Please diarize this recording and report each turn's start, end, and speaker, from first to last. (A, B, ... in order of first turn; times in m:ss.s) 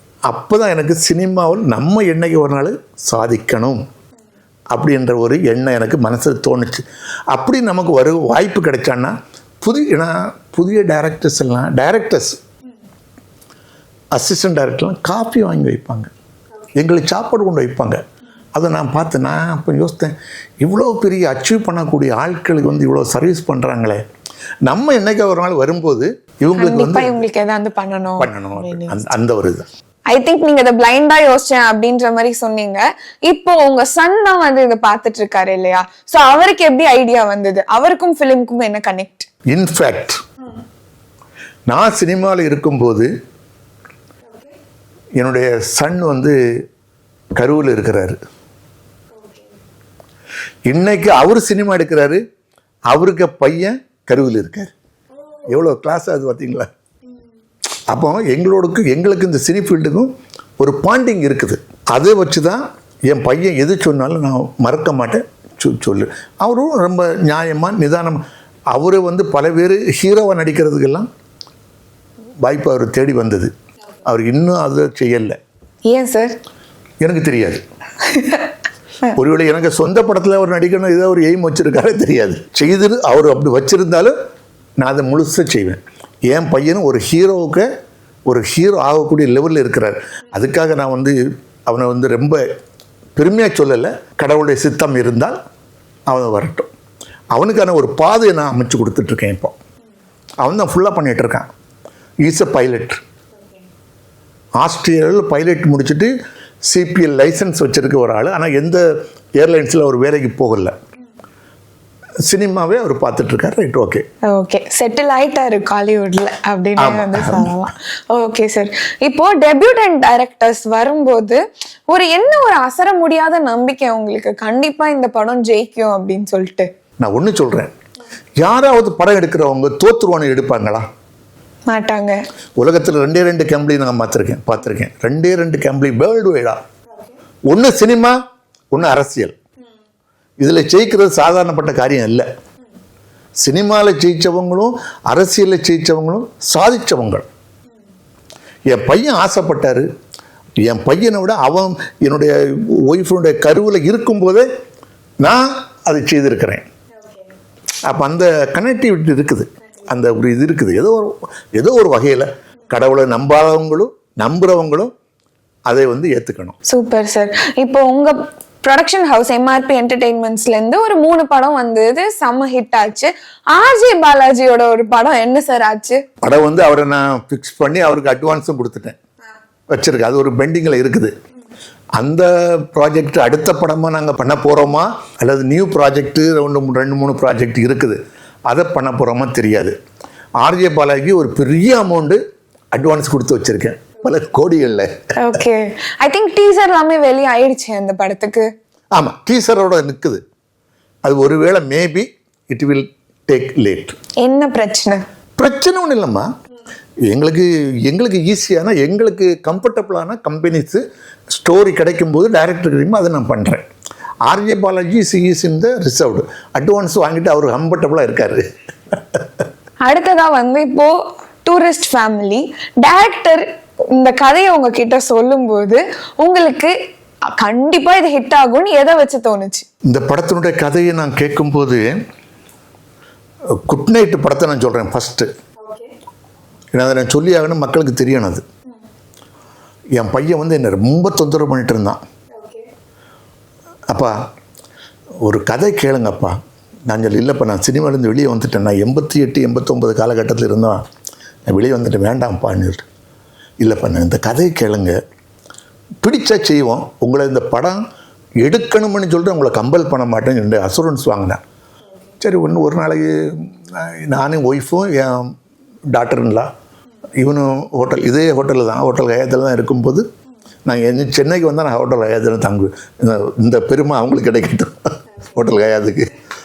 0:00.3-0:03.8 A
0:04.7-0:12.4 A
0:14.1-0:16.1 A
0:16.8-0:18.0 A
0:18.6-0:24.0 A
0:24.7-0:27.2 A
0:26.6-0:29.1 B
0:28.2-0:29.7 A
0:30.1-0:39.3 B
0:39.5-0:40.2 A
0:41.7-0:43.1 A
0:45.2-0:46.4 A
0:47.4-0:48.2 A
0:50.7-0:52.2 A
0:52.9-0:54.7 A
0:55.5-0:56.7 A
0:57.9-1:08.2 A
1:08.7-1:11.1 A
1:12.4-1:13.5 A
1:14.0-1:15.4 A
1:15.9-1:16.4 B
1:17.0-1:17.6 A
1:18.1-1:18.4 B
1:19.1-1:24.1 A
1:24.8-1:27.7 A
1:28.3-1:31.2 A
1:31.7-1:32.4 A
1:33.2-1:35.4 A
1:36.1-1:36.7 A
1:37.3-1:39.6 A
1:40.4-1:41.5 A
1:42.2-1:43.0 A
1:44.6-1:46.1 A
1:46.7-1:48.8 A
1:49.4-1:50.7 A
1:52.3-1:54.0 A
1:54.3-2:06.7 B
1:56.8-1:57.5 A
2:07.0-2:07.7 A
2:08.4-2:10.8 A
2:11.7-2:12.2 B
2:12.6-2:16.6 A
2:17.5-2:18.2 A
2:18.7-2:19.4 A
2:20.4-2:22.3 A
2:23.4-2:27.3 A
2:28.7-2:29.9 A
2:30.6-2:32.3 A
2:32.8-2:34.5 A
2:35.2-2:36.7 A
2:37.9-2:44.9 A
2:45.7-2:46.6 A
2:46.7-2:56.0 B
2:56.2-2:59.0 A
2:59.7-3:01.1 A
3:02.0-3:09.8 A
3:10.4-3:12.2 A
3:12.7-3:15.0 A
3:15.2-3:18.5 B
3:19.0-3:20.2 A
3:21.0-3:24.0 A
3:24.2-3:25.0 B
3:25.4-3:26.3 A
3:27.1-3:30.8 A
3:31.4-3:33.6 A
3:34.3-3:39.2 A
3:39.8-3:46.7 B
3:47.3-3:49.7 B
3:49.9-3:51.8 A
3:53.6-3:55.3 A
3:56.7-3:58.4 A
4:00.0-4:02.0 A
4:03.9-4:04.2 A
4:05.2-4:06.4 A
4:06.9-4:10.8 A
4:11.5-4:12.8 A
4:13.6-4:15.0 A
4:16.0-4:17.8 A
4:18.4-4:21.4 A
4:22.2-4:25.3 A
4:25.9-4:26.5 A
4:27.2-4:30.0 A
4:30.7-4:36.2 A